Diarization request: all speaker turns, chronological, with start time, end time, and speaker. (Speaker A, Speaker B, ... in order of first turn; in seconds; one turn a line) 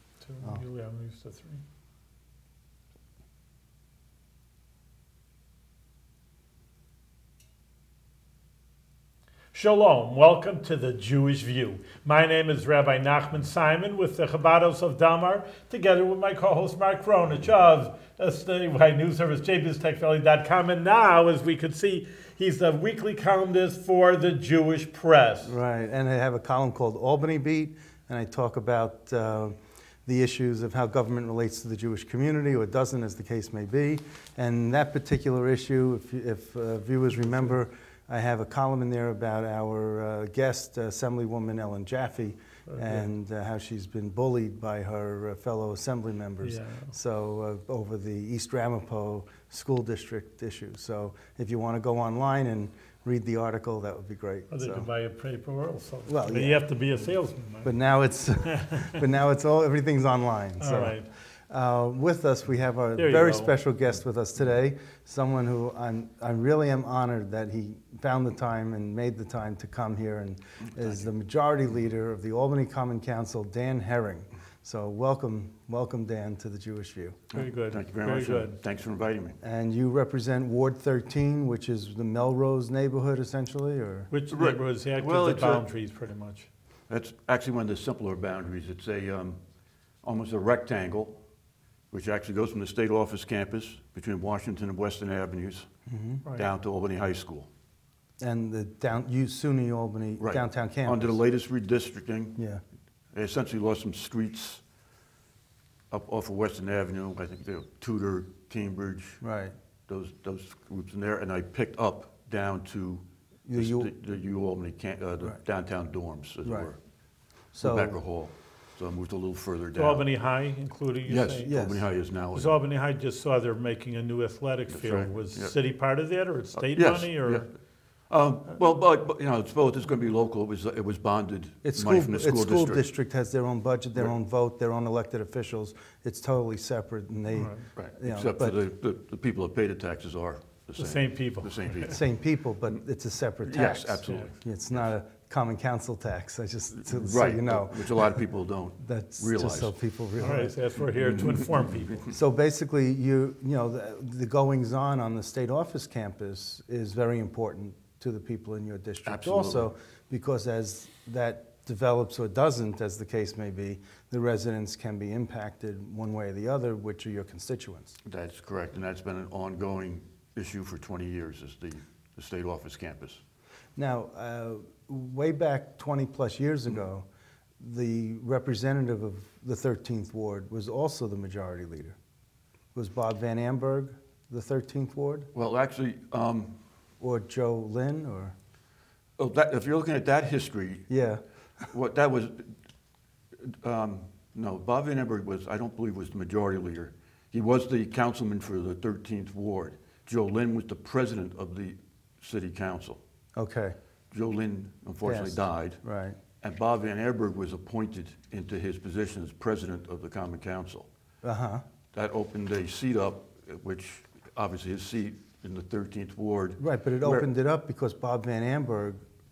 Speaker A: 0.2-1.6
Speaker A: 9.5-25.5
Speaker B: 25.4-54.9
Speaker A: 42.7-43.0
Speaker A: 46.4-46.9
Speaker A: 54.5-57.7
Speaker B: 56.0-56.8
Speaker B: 57.6-77.2
Speaker A: 60.6-61.1
Speaker A: 63.0-63.5
Speaker A: 77.3-78.6
Speaker C: 77.3-79.4
Speaker B: 79.4-84.1
Speaker A: 84.1-86.5
Speaker C: 84.3-85.7
Speaker C: 86.9-89.4
Speaker C: 90.0-91.2
Speaker C: 91.9-95.7
Speaker B: 95.9-96.2
Speaker C: 96.3-97.5
Speaker B: 98.2-101.2
Speaker C: 100.2-102.4
Speaker B: 102.4-102.6
Speaker C: 103.1-104.6
Speaker C: 105.9-109.2
Speaker B: 109.2-109.5
Speaker C: 109.9-116.8
Speaker B: 113.5-113.9
Speaker B: 116.4-116.7
Speaker B: 117.5-118.0
Speaker C: 117.6-120.1
Speaker A: 119.7-121.6
Speaker C: 121.0-122.6
Speaker B: 121.4-121.8
Speaker A: 122.3-127.5
Speaker C: 124.7-125.5
Speaker C: 126.6-127.5
Speaker C: 128.1-132.9
Speaker B: 131.6-138.6
Speaker A: 137.3-137.6
Speaker C: 137.7-142.1
Speaker A: 140.8-141.9
Speaker B: 141.9-148.2
Speaker C: 143.4-144.3
Speaker C: 146.8-149.7
Speaker B: 148.8-150.6
Speaker A: 150.2-152.1
Speaker B: 152.1-168.0
Speaker C: 159.0-159.7
Speaker C: 168.0-173.2
Speaker B: 173.8-177.1
Speaker B: 177.6-182.0
Speaker B: 182.7-185.3
Speaker C: 185.3-186.5
Speaker B: 187.0-188.3
Speaker C: 189.2-190.9
Speaker B: 190.9-191.2
Speaker C: 191.7-192.5
Speaker C: 193.4-203.0
Speaker B: 203.3-203.8
Speaker C: 204.1-205.8
Speaker B: 205.0-206.2
Speaker C: 206.4-210.9
Speaker B: 211.2-211.6
Speaker C: 211.9-217.3
Speaker B: 216.6-219.0